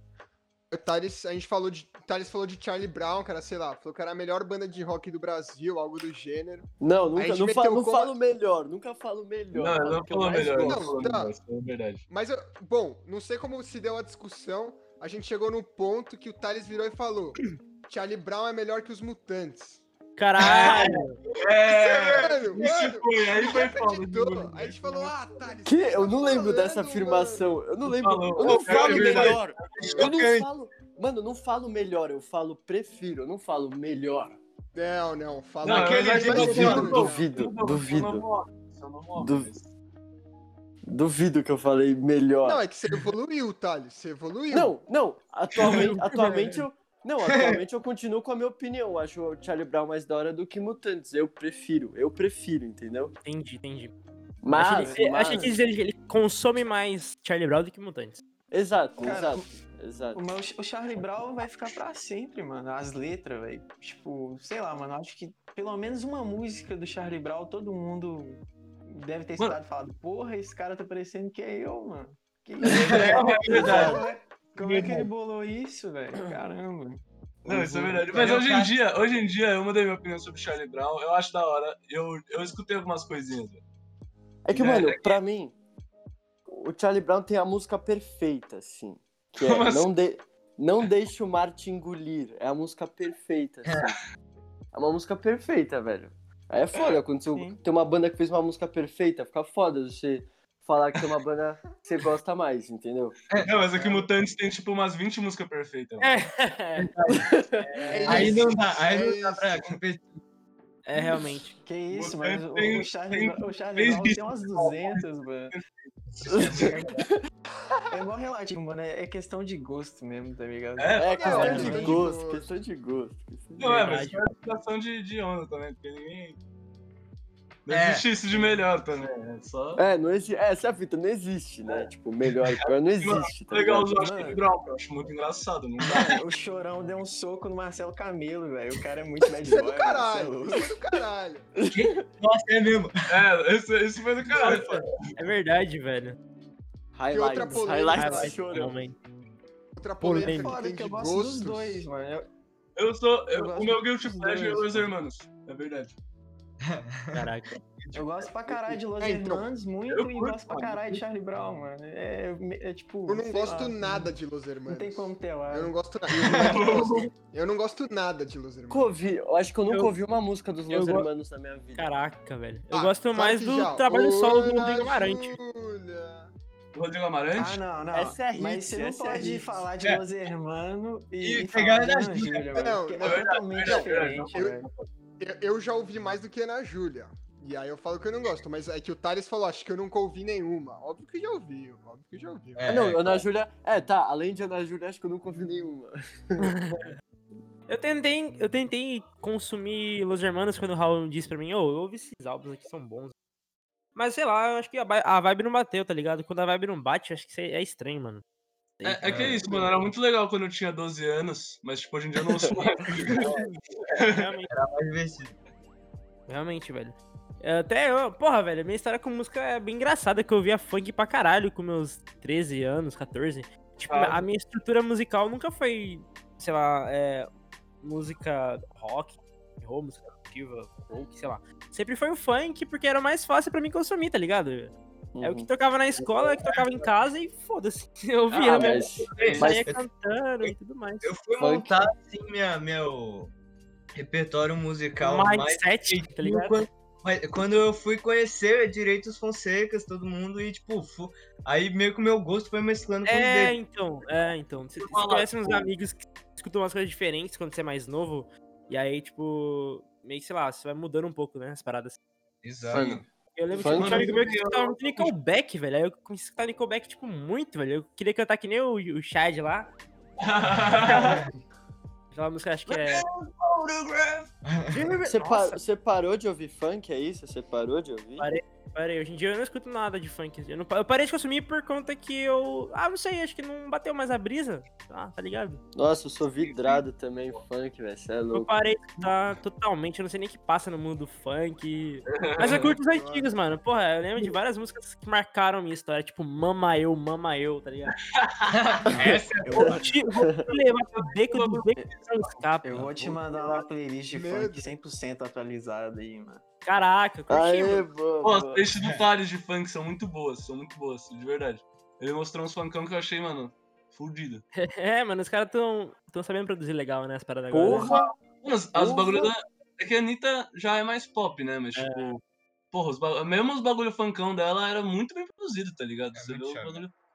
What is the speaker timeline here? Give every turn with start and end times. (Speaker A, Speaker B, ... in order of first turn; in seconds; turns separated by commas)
Speaker A: 0.7-8.2, Speaker B: 6.8-10.9, Speaker C: 9.5-12.0, Speaker A: 10.4-11.3, Speaker A: 12.1-19.8, Speaker D: 20.2-21.2, Speaker C: 20.4-25.1, Speaker E: 20.4-21.0, Speaker E: 21.6-23.0, Speaker A: 22.1-27.6, Speaker B: 25.6-34.4, Speaker C: 27.9-30.1, Speaker E: 28.4-30.5, Speaker A: 34.8-37.3, Speaker C: 35.6-39.7, Speaker E: 35.7-37.1, Speaker B: 36.4-38.3, Speaker B: 39.2-39.5, Speaker B: 40.9-42.6, Speaker A: 42.4-44.8, Speaker B: 44.5-53.1, Speaker D: 45.6-46.6, Speaker E: 47.2-47.6, Speaker D: 53.2-53.9, Speaker B: 54.4-55.5, Speaker D: 54.5-58.2, Speaker F: 54.6-55.6, Speaker B: 58.5-60.2, Speaker F: 59.0-59.5, Speaker F: 60.1-77.0, Speaker C: 72.6-74.0, Speaker E: 72.9-73.4, Speaker B: 73.5-74.0, Speaker C: 74.6-75.1, Speaker C: 77.5-83.6, Speaker B: 77.5-77.8, Speaker E: 78.1-78.8, Speaker B: 84.5-85.5, Speaker C: 84.5-85.2, Speaker B: 86.5-94.0, Speaker C: 89.4-89.9, Speaker E: 93.7-93.9, Speaker B: 94.7-103.2, Speaker F: 97.3-97.6, Speaker E: 103.3-103.6, Speaker C: 103.3-106.1, Speaker D: 106.0-106.9, Speaker B: 107.1-107.7, Speaker D: 107.6-108.3, Speaker A: 107.9-109.6, Speaker F: 107.9-108.2, Speaker E: 108.1-110.2, Speaker D: 110.9-111.6, Speaker F: 111.6-115.5, Speaker C: 111.9-115.9, Speaker E: 116.1-116.9, Speaker B: 116.3-117.2, Speaker F: 116.4-116.9, Speaker F: 117.9-122.0, Speaker C: 120.8-121.9, Speaker B: 121.0-124.1, Speaker A: 121.1-122.5, Speaker C: 123.6-126.4, Speaker D: 123.8-124.3, Speaker C: 127.7-129.8, Speaker E: 127.7-128.1, Speaker B: 129.8-133.9, Speaker C: 133.0-136.2, Speaker F: 133.9-134.4, Speaker F: 135.8-140.7, Speaker A: 139.4-141.5, Speaker B: 141.6-141.9, Speaker E: 141.7-143.2, Speaker C: 143.1-144.9, Speaker E: 144.3-144.8, Speaker D: 145.2-146.2, Speaker B: 146.9-148.8, Speaker A: 147.1-148.4, Speaker D: 147.9-149.0, Speaker A: 149.8-151.9, Speaker D: 150.0-150.6, Speaker F: 150.2-152.3, Speaker C: 152.8-156.0, Speaker F: 153.3-154.9, Speaker E: 156.6-158.3, Speaker D: 157.1-157.5, Speaker F: 157.9-164.2, Speaker A: 159.0-159.5, Speaker C: 159.9-161.0, Speaker A: 163.1-168.9, Speaker F: 164.7-165.7, Speaker C: 166.2-167.1, Speaker E: 166.2-166.5, Speaker B: 168.7-171.9, Speaker D: 169.7-169.9, Speaker D: 170.7-171.1, Speaker D: 171.8-175.4, Speaker A: 172.7-176.3, Speaker C: 176.7-177.6, Speaker F: 177.3-184.7, Speaker B: 177.9-179.7, Speaker E: 181.2-182.5, Speaker A: 182.5-184.6, Speaker C: 183.0-184.9, Speaker A: 185.2-192.7, Speaker E: 192.6-193.2, Speaker B: 192.7-196.5, Speaker D: 196.4-196.9, Speaker D: 197.7-203.1, Speaker D: 204.0-208.2, Speaker D: 208.8-209.6, Speaker C: 208.8-213.4, Speaker E: 209.1-209.5, Speaker D: 213.2-213.4, Speaker C: 213.9-214.3, Speaker D: 214.0-214.5, Speaker E: 214.5-215.4, Speaker D: 216.3-227.3, Speaker C: 223.9-224.2, Speaker D: 227.8-241.1, Speaker B: 235.2-235.5, Speaker C: 236.2-236.7, Speaker B: 238.3-239.6, Speaker C: 238.5-239.5, Speaker E: 239.2-239.8, Speaker E: 240.4-243.3, Speaker B: 241.4-241.8, Speaker E: 243.9-253.6, Speaker D: 245.0-246.6, Speaker D: 253.1-262.0, Speaker C: 254.8-255.7, Speaker E: 262.4-262.9, Speaker C: 262.7-263.1, Speaker B: 262.7-263.0, Speaker D: 263.4-269.7, Speaker B: 263.6-264.1, Speaker C: 263.6-265.1, Speaker C: 270.2-271.2, Speaker D: 270.8-271.2, Speaker D: 272.1-273.0, Speaker C: 272.7-274.3, Speaker E: 274.5-274.9, Speaker B: 274.8-278.3, Speaker D: 275.0-275.6, Speaker D: 278.2-285.6, Speaker B: 285.8-288.5, Speaker C: 286.2-286.9, Speaker D: 288.3-298.0, Speaker C: 292.1-292.7, Speaker A: 292.8-293.3, Speaker C: 298.0-298.5, Speaker E: 298.5-299.8, Speaker D: 299.0-303.4, Speaker F: 299.4-299.9, Speaker B: 300.1-300.5, Speaker C: 301.0-302.2, Speaker F: 302.6-306.4, Speaker A: 304.1-304.8, Speaker D: 306.6-307.9, Speaker B: 307.3-308.7, Speaker C: 308.2-314.4, Speaker D: 314.6-317.9, Speaker C: 317.5-326.9, Speaker B: 317.6-318.1, Speaker B: 318.8-319.3, Speaker D: 321.8-322.1, Speaker E: 326.1-326.8